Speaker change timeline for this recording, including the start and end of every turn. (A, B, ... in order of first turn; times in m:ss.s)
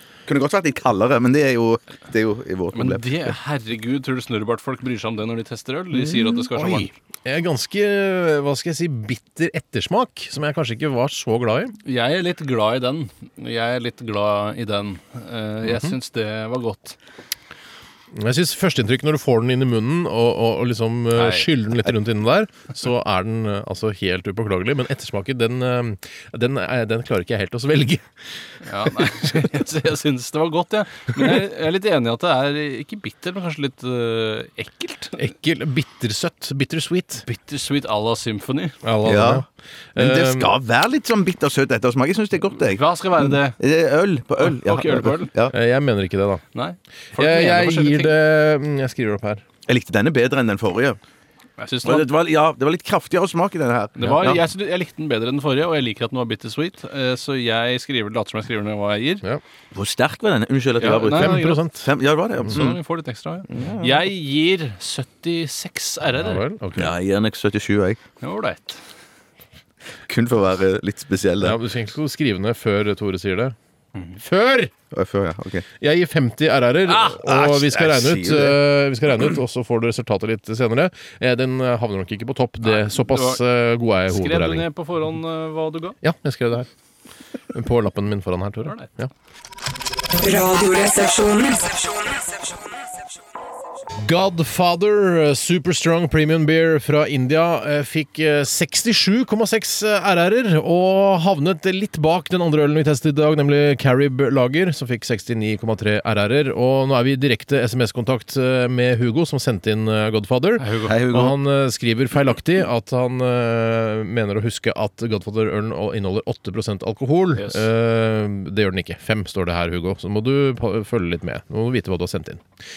0:00.2-0:03.4 A
0:02.7-0:06.9 B
0:05.9-0:11.7 C
0:11.8-0:17.0 B
0:15.6-0:15.9 C
0:18.1-0:28.0 C
0:21.1-0:21.5 B
0:28.6-0:35.3 B
0:28.9-0:29.4 C
0:35.2-0:37.2 C
0:37.2-0:38.8 B
0:38.8-0:40.6 C
0:39.0-0:39.4 A
0:40.0-0:45.5 A
0:42.6-0:43.6 B
0:44.4-0:45.3 B
0:45.5-0:46.4 C
0:46.5-0:48.1 B
0:47.1-0:49.4 C
0:49.7-0:51.0 A
0:51.6-0:52.1 B
0:51.8-0:54.4 A
0:54.0-0:59.2 B
0:54.0-0:54.4 C
0:59.7-1:02.8 A
1:00.8-1:01.7 B
1:01.1-1:01.9 C
1:02.4-1:06.4 B
1:03.5-1:04.0 A
1:06.1-1:06.9 C
1:06.8-1:08.0 A
1:08.2-1:08.8 B
1:10.1-1:11.6 A
1:11.4-1:13.5 C
1:13.9-1:14.2 B
1:14.2-1:14.7 C
1:14.9-1:15.6 A
1:15.8-1:24.7 C
1:17.0-1:18.6 A
1:22.6-1:23.4 B
1:24.0-1:26.0 B
1:26.0-1:26.7 C
1:27.5-1:29.1 C
1:30.2-1:32.2 D
1:34.0-2:02.4 C
1:50.6-1:51.0 B
1:50.8-1:51.4 A
1:57.4-1:57.6 B